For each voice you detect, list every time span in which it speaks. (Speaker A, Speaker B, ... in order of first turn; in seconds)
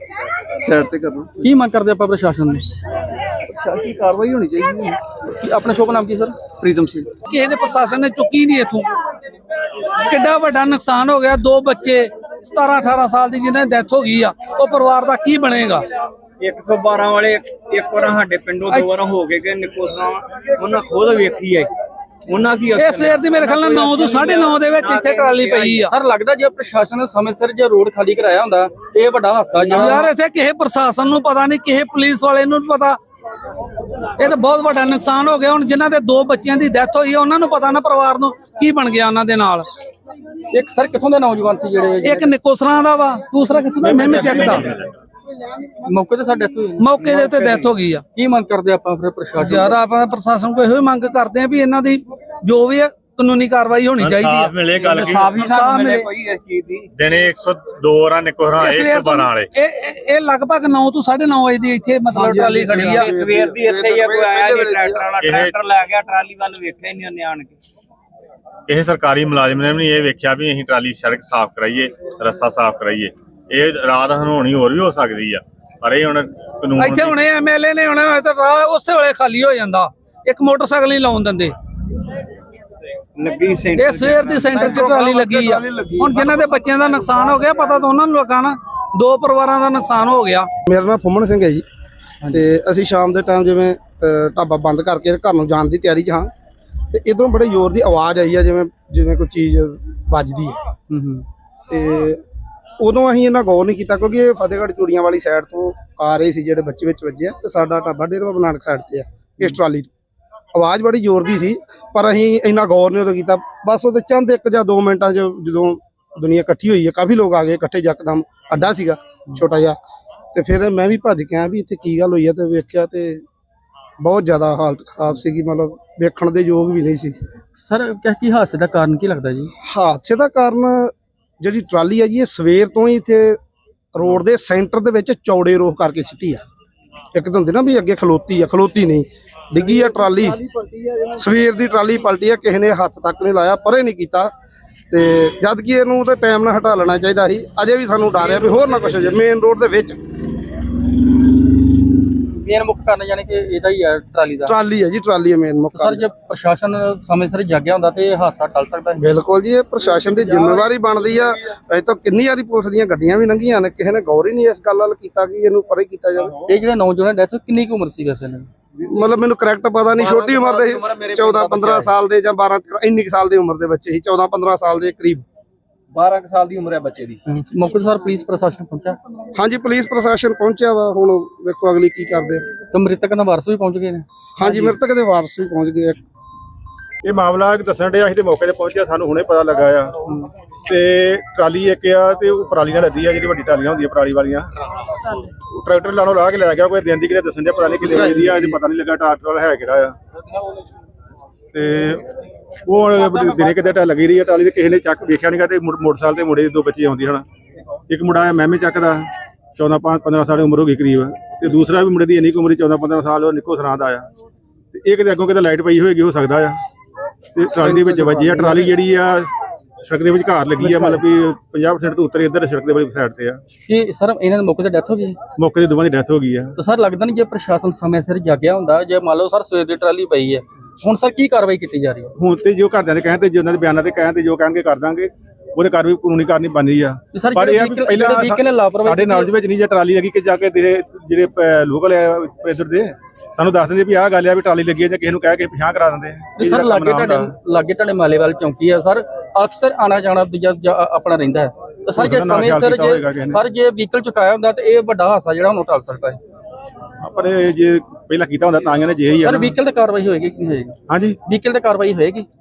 Speaker A: 0.6-1.4, 3.5-5.0, 6.6-7.2, 139.8-141.2
Speaker B: 1.4-2.6, 5.2-6.4, 25.9-30.1, 40.5-42.3, 43.9-44.6, 45.8-46.9, 48.1-49.8, 92.2-92.5, 100.9-101.2, 127.5-129.5, 152.2-154.6, 155.7-159.0, 166.5-168.5, 177.3-179.0, 182.7-184.7, 223.7-225.2, 226.6-232.1, 237.1-239.3, 246.4-256.2, 259.2-262.3
Speaker C: 7.3-8.9, 10.0-15.8, 22.9-25.9, 29.8-33.0, 34.2-39.6, 42.1-44.7, 46.8-48.0, 49.5-54.5, 55.5-56.0, 58.6-62.9, 76.8-81.5, 84.5-90.5
Speaker D: 16.4-21.7, 22.3-25.8, 54.7-56.9, 62.2-67.6, 83.2-84.7, 85.2-86.5, 170.0-171.9, 175.9-177.2
Speaker E: 23.4-25.5, 43.8-44.6, 47.0-47.8, 54.0-54.5, 55.2-55.6, 58.6-59.1, 62.3-63.0, 76.8-77.2, 84.0-87.8, 187.0-189.9, 190.7-194.5, 195.6-199.9, 201.5-202.0, 202.7-207.2, 207.9-214.1, 214.7-216.6, 217.4-219.3, 219.8-223.4, 225.4-226.5, 232.2-247.3, 252.0-253.4, 257.0-259.5, 260.9-261.2
Speaker F: 54.0-55.4, 57.0-59.5, 65.2-65.5, 68.7-77.2
Speaker G: 62.1-65.1, 84.6-86.2, 90.7-91.6, 92.3-96.3, 96.9-100.6, 101.7-102.2, 102.8-109.9, 110.5-119.8, 120.3-123.2, 124.0-127.2, 129.7-133.4, 133.9-136.4, 137.1-140.4, 141.2-144.3, 144.9-150.0, 154.5-156.1, 159.0-166.3, 168.9-175.2, 179.3-182.5, 184.4-186.0, 217.6-218.7, 220.6-221.1